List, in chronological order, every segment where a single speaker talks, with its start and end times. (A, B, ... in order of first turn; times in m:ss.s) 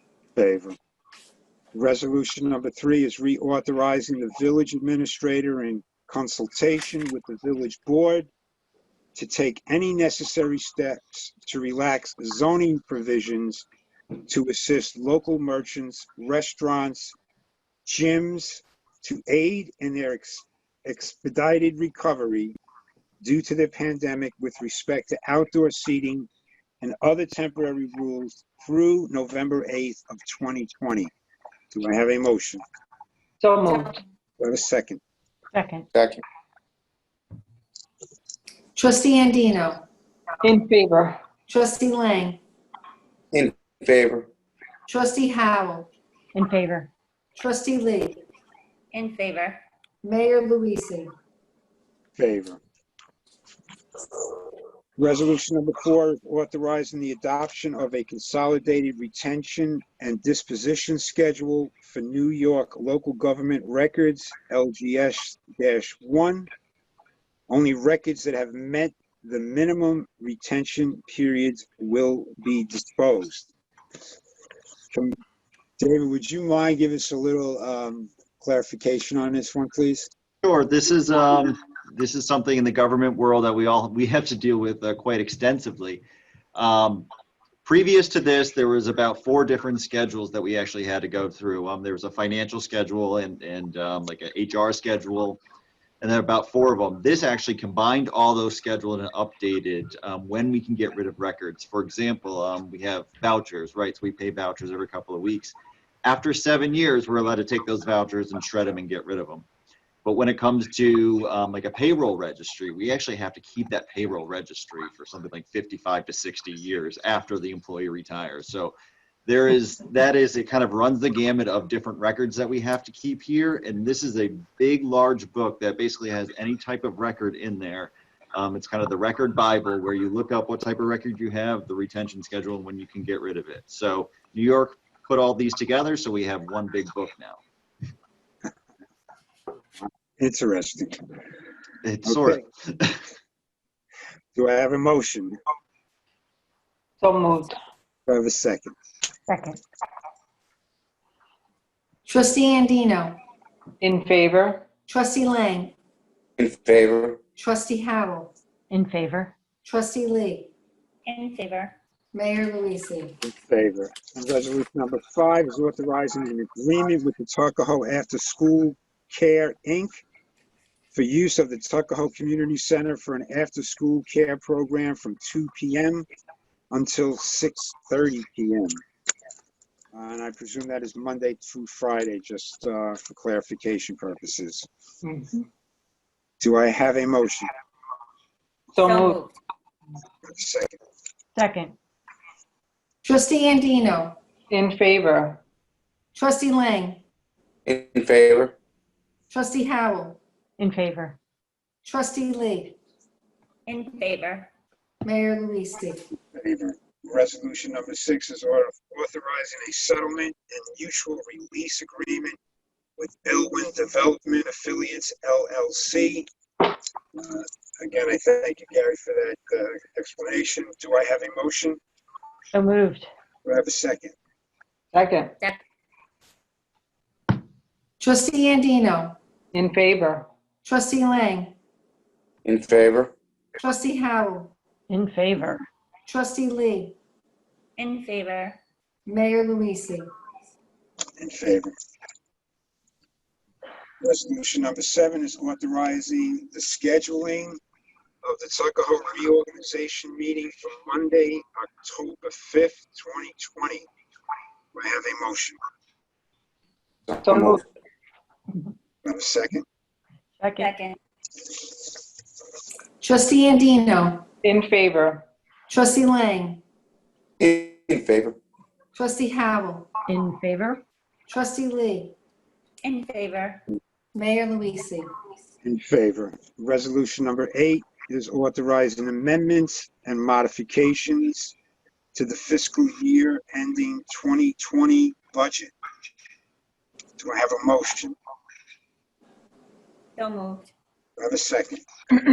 0:00.4-0:00.8 A
0:01.7-0:08.3 A
0:09.2-0:13.7 A
0:14.3-0:17.2 A
0:17.9-0:22.5 A
0:23.2-0:26.3 A
0:26.8-0:31.1 A
0:31.7-0:32.6 A
0:33.4-0:34.0 B
0:34.4-0:35.0 A
0:35.5-0:35.9 C
0:35.9-0:36.2 D
0:38.8-0:39.8 E
0:40.4-0:41.2 B
0:41.5-0:42.4 E
0:43.3-0:44.3 D
0:44.9-0:45.9 E
0:46.4-0:46.9 C
0:47.4-0:48.2 E
0:48.9-0:49.6 F
0:50.0-0:51.1 E
0:52.2-0:52.6 A
0:55.0-1:06.5 A
1:07.5-1:13.5 A
1:15.8-1:20.1 A
1:20.4-1:26.0 G
1:26.6-1:27.1 G
1:27.6-1:35.4 G
1:36.0-1:49.5 G
1:50.0-1:58.8 G
1:59.3-2:17.4 G
2:20.2-2:21.0 A
2:21.8-2:23.0 G
2:22.1-2:22.4 A
2:24.4-2:25.4 A
2:27.0-2:27.6 B
2:28.1-2:28.7 A
2:29.3-2:29.6 C
2:32.1-2:33.2 E
2:33.8-2:34.7 B
2:34.9-2:35.8 E
2:36.4-2:37.2 D
2:37.4-2:38.3 E
2:38.7-2:39.4 C
2:39.6-2:40.5 E
2:41.1-2:41.7 F
2:42.1-2:43.2 E
2:43.2-2:50.0 A
2:50.9-2:56.1 A
2:56.7-2:58.8 A
2:59.9-3:04.7 A
3:05.0-3:05.4 B
3:06.4-3:07.5 A
3:08.8-3:09.2 B
3:08.8-3:09.3 F
3:10.3-3:10.8 A
3:11.4-3:11.8 C
3:13.0-3:14.2 E
3:14.5-3:15.4 B
3:16.2-3:17.0 E
3:17.7-3:18.6 D
3:19.3-3:20.2 E
3:20.6-3:21.2 C
3:21.8-3:22.8 E
3:23.7-3:24.5 F
3:25.0-3:26.0 E
3:26.3-3:32.4 A
3:33.0-3:36.3 A
3:37.2-3:41.8 A
3:42.5-3:43.1 C
3:43.4-3:44.1 A
3:44.9-3:45.3 B
3:48.0-3:49.2 E
3:49.5-3:50.3 B
3:50.6-3:51.6 E
3:52.4-3:53.1 D
3:53.6-3:54.5 E
3:54.9-3:55.6 C
3:56.1-3:57.0 E
3:57.8-3:58.6 F
3:59.1-4:00.1 E
4:01.2-4:01.7 A
4:04.0-4:07.6 A
4:08.2-4:13.9 A
4:14.7-4:15.6 A
4:17.1-4:17.6 D
4:17.2-4:17.6 B
4:19.0-4:19.6 A
4:20.4-4:20.7 C
4:20.6-4:21.0 F
4:23.0-4:24.3 E
4:24.4-4:25.2 B
4:25.7-4:26.6 E
4:27.4-4:28.4 D
4:28.9-4:29.9 E
4:30.1-4:30.8 C
4:31.3-4:32.2 E
4:32.8-4:33.6 F
4:34.1-4:35.1 E
4:35.6-4:41.5 A
4:42.2-4:45.7 A
4:47.2-4:48.2 A
4:50.2-4:50.6 F
4:51.2-4:51.8 A